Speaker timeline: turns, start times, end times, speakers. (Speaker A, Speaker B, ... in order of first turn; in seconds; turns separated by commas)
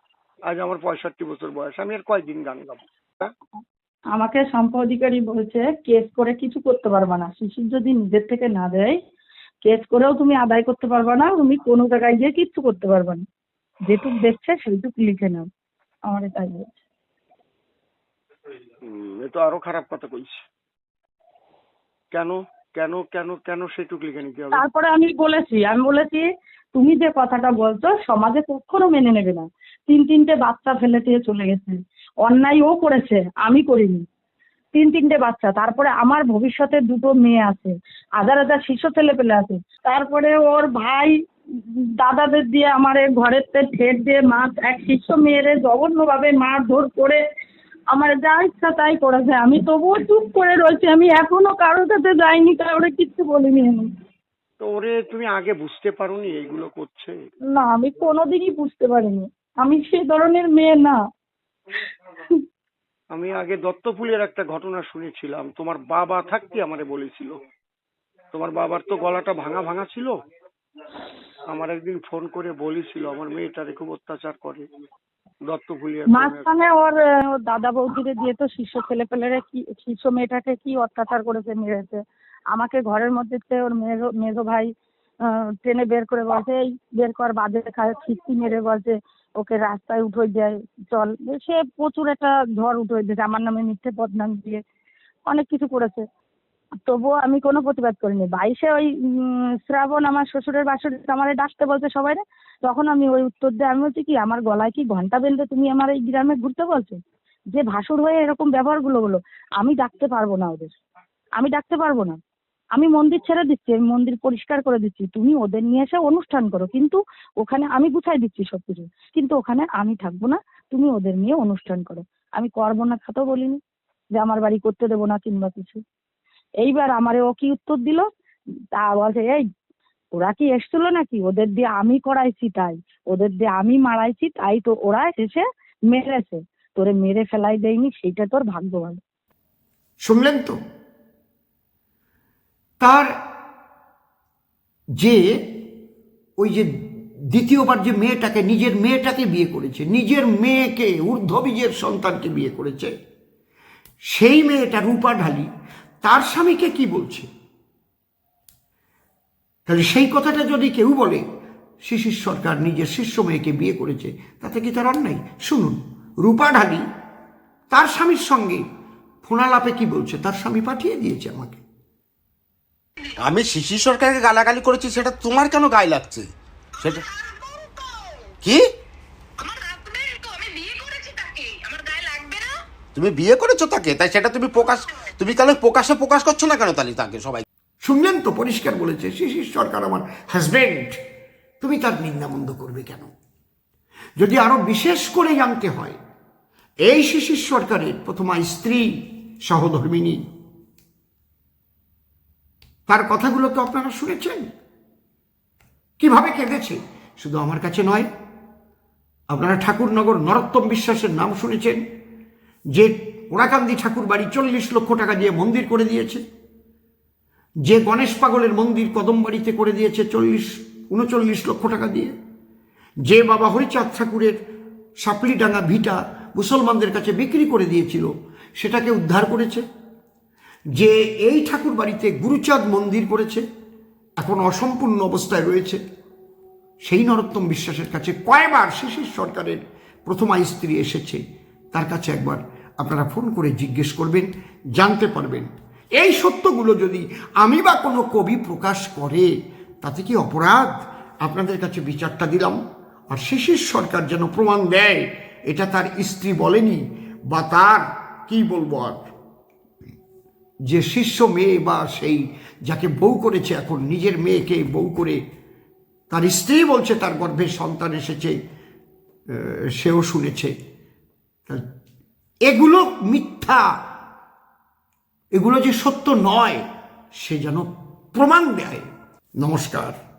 Speaker A: 0.5-3.3, Speaker B: 4.1-8.9, Speaker B: 9.6-13.2, Speaker B: 13.8-15.5, Speaker B: 16.1-16.7, Speaker A: 18.9-20.4, Speaker A: 22.1-24.6, Speaker B: 24.5-34.0, Speaker B: 34.7-47.2, Speaker B: 47.9-53.9, Speaker A: 54.6-57.1, Speaker B: 57.5-61.0, Speaker A: 63.1-67.3, Speaker A: 68.3-70.1, Speaker A: 71.5-74.6, Speaker A: 75.5-76.5, Speaker B: 76.1-82.0, Speaker B: 82.5-84.7, Speaker B: 85.3-94.6, Speaker B: 95.3-96.0, Speaker B: 96.8-107.0, Speaker B: 107.5-110.7, Speaker B: 111.4-112.2, Speaker B: 112.8-123.6, Speaker B: 124.2-125.8, Speaker B: 126.6-128.0, Speaker B: 128.8-129.4, Speaker B: 130.2-139.0, Speaker C: 140.0-140.6, Speaker C: 142.8-143.1, Speaker C: 145.0-145.4, Speaker C: 146.4-146.7, Speaker C: 147.3-152.9, Speaker C: 154.1-155.5, Speaker C: 156.0-157.3, Speaker C: 159.7-161.2, Speaker C: 161.8-166.8, Speaker C: 167.7-168.6, Speaker C: 169.2-171.6, Speaker D: 173.2-177.0, Speaker E: 177.3-177.9, Speaker D: 178.4-178.7, Speaker E: 179.4-182.6, Speaker D: 182.9-187.4, Speaker C: 187.8-191.0, Speaker C: 191.6-193.1, Speaker C: 194.2-196.0, Speaker C: 196.9-198.9, Speaker C: 199.4-200.2, Speaker C: 202.9-204.5, Speaker C: 206.0-208.1, Speaker C: 209.3-211.8, Speaker C: 212.7-216.2, Speaker C: 217.7-222.1, Speaker C: 223.1-224.3, Speaker C: 225.0-229.6, Speaker C: 230.8-233.4, Speaker C: 234.2-235.8, Speaker C: 236.9-241.2, Speaker C: 241.7-249.3, Speaker C: 249.8-250.7, Speaker C: 251.2-252.6, Speaker C: 253.1-259.0, Speaker C: 260.7-265.2, Speaker C: 266.1-268.3, Speaker C: 269.3-270.5, Speaker C: 272.5-273.8, Speaker C: 275.3-276.6, Speaker C: 277.1-278.8, Speaker C: 279.4-279.9